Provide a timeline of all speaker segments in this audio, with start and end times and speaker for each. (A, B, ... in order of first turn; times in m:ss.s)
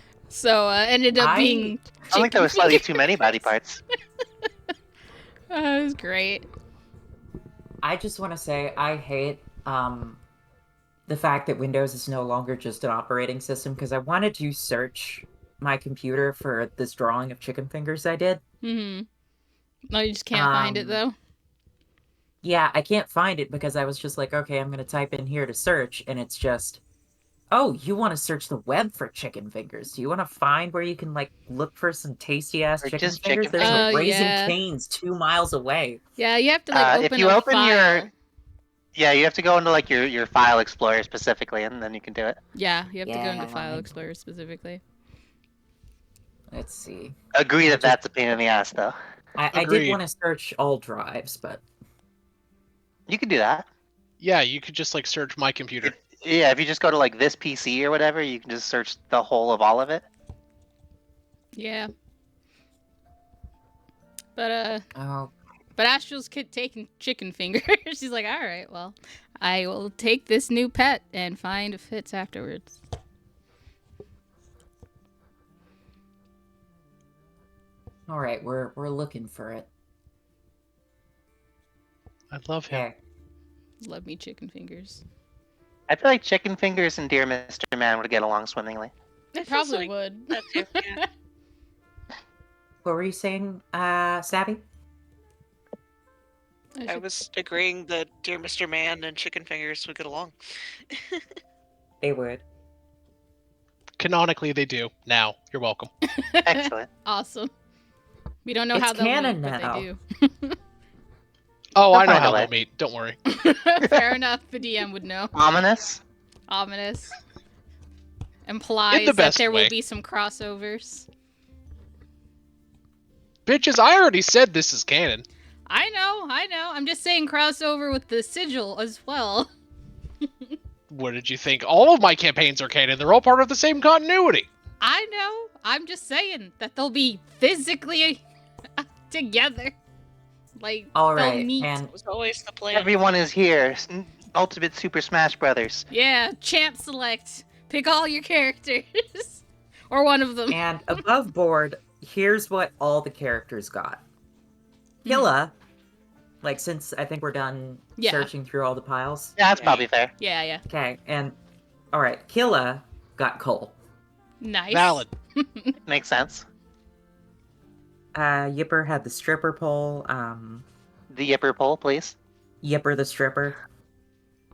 0:00.3-0:03.3 A
0:01.2-0:02.1 B
0:02.1-0:03.8 C
0:05.5-0:06.4 A
0:07.8-0:10.2 B
0:11.1-0:18.4 B
0:18.6-0:19.0 A
0:19.9-0:21.1 A
0:20.3-0:21.0 B
0:22.4-0:26.8 B
0:27.5-0:36.0 B
0:32.8-0:34.0 C
0:33.6-0:34.6 A
0:36.2-0:38.1 A
0:36.7-0:38.1 C
0:38.9-0:42.4 C
0:42.5-0:44.8 A
0:43.0-0:43.9 B
0:46.5-0:48.0 B
0:47.4-0:49.0 C
0:49.4-0:51.6 B
0:49.5-0:50.0 D
0:53.1-0:53.7 C
0:54.2-0:55.9 D
0:55.8-1:00.0 C
1:01.5-1:01.9 A
1:04.3-1:04.8 A
1:05.0-1:05.3 B
1:05.8-1:12.8 A
1:18.1-1:19.7 B
1:22.3-1:22.8 D
1:22.7-1:23.0 B
1:23.8-1:25.0 A
1:25.9-1:28.9 C
1:29.3-1:31.0 A
1:29.5-1:31.0 E
1:32.8-1:34.6 B
1:36.8-1:37.1 A
1:36.9-1:40.3 E
1:42.0-1:42.4 B
1:44.0-1:45.9 D
1:46.0-1:47.5 A
1:46.4-1:46.9 C
1:48.4-1:50.6 A
1:48.7-1:49.9 B
1:51.7-1:53.2 D
1:51.9-1:52.5 C
1:53.3-1:55.3 A
1:55.3-1:56.0 C
1:56.5-1:57.1 A
1:58.4-2:01.1 A
1:58.9-1:59.7 D
2:03.4-2:05.2 D
2:05.7-2:09.5 A
2:10.9-2:14.5 D
2:14.8-2:18.2 A
2:18.8-2:19.7 A
2:20.6-2:21.8 A
2:20.9-2:21.9 B
2:21.9-2:22.9 E
2:22.7-2:25.8 C
2:25.9-2:30.6 A
2:30.5-2:34.0 B
2:35.0-2:35.3 A
2:35.0-2:35.5 B
2:36.4-2:39.4 B
2:38.0-2:38.3 A
2:39.4-2:40.1 C
2:40.2-2:40.6 A
2:40.7-2:41.4 B
2:41.9-2:43.8 B
2:44.4-2:45.7 A
2:44.7-2:45.1 D
2:45.9-2:46.5 C
2:48.1-2:50.6 B
2:51.1-2:52.2 C
2:52.6-2:53.6 B